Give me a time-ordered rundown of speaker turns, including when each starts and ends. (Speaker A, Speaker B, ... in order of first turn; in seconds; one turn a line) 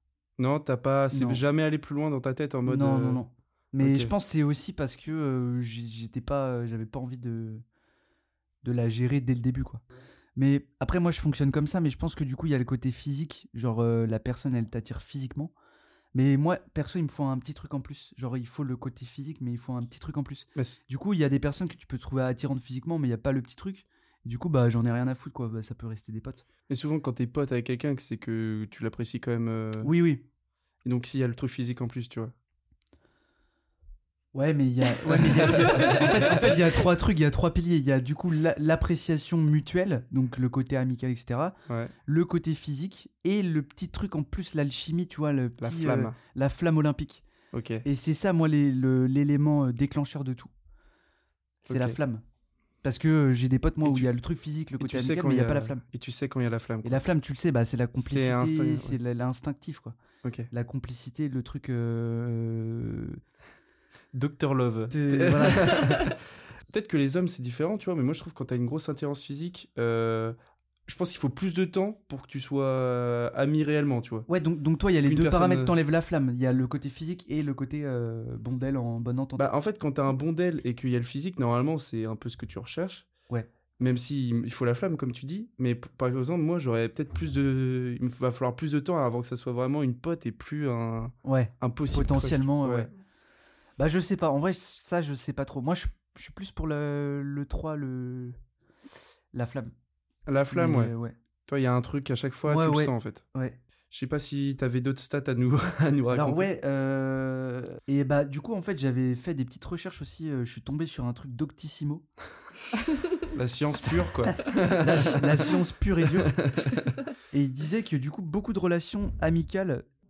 Speaker A: 0.4-3.2
Speaker B: 1.1-1.4
Speaker B: 2.6-7.6
Speaker A: 3.8-4.1
Speaker B: 8.6-9.8
Speaker B: 10.3-15.5
Speaker B: 16.1-26.4
Speaker A: 26.7-29.9
Speaker B: 29.8-30.2
Speaker A: 30.8-32.3
Speaker B: 34.3-47.2
Speaker A: 35.1-36.6
Speaker A: 41.7-41.9
Speaker A: 45.6-46.1
Speaker A: 47.5-47.8
Speaker B: 47.8-50.5
Speaker A: 51.6-52.0
Speaker B: 51.6-52.2
Speaker B: 52.8-55.8
Speaker A: 53.8-54.1
Speaker A: 54.8-57.0
Speaker B: 56.8-60.0
Speaker A: 57.9-59.0
Speaker A: 60.2-60.5
Speaker B: 60.5-63.2
Speaker A: 64.1-70.3
Speaker B: 64.9-66.0
Speaker A: 70.9-74.3
Speaker B: 74.3-79.5
Speaker A: 75.0-75.7
Speaker A: 79.4-83.1
Speaker A: 83.8-92.9
Speaker B: 91.2-92.9
Speaker B: 93.8-98.4
Speaker B: 99.3-99.7
Speaker A: 100.3-100.9
Speaker B: 100.5-101.2
Speaker A: 101.5-103.2
Speaker B: 102.5-103.6
Speaker A: 103.9-106.5
Speaker B: 106.1-112.1
Speaker A: 113.3-116.9
Speaker B: 113.7-116.3
Speaker B: 117.3-119.8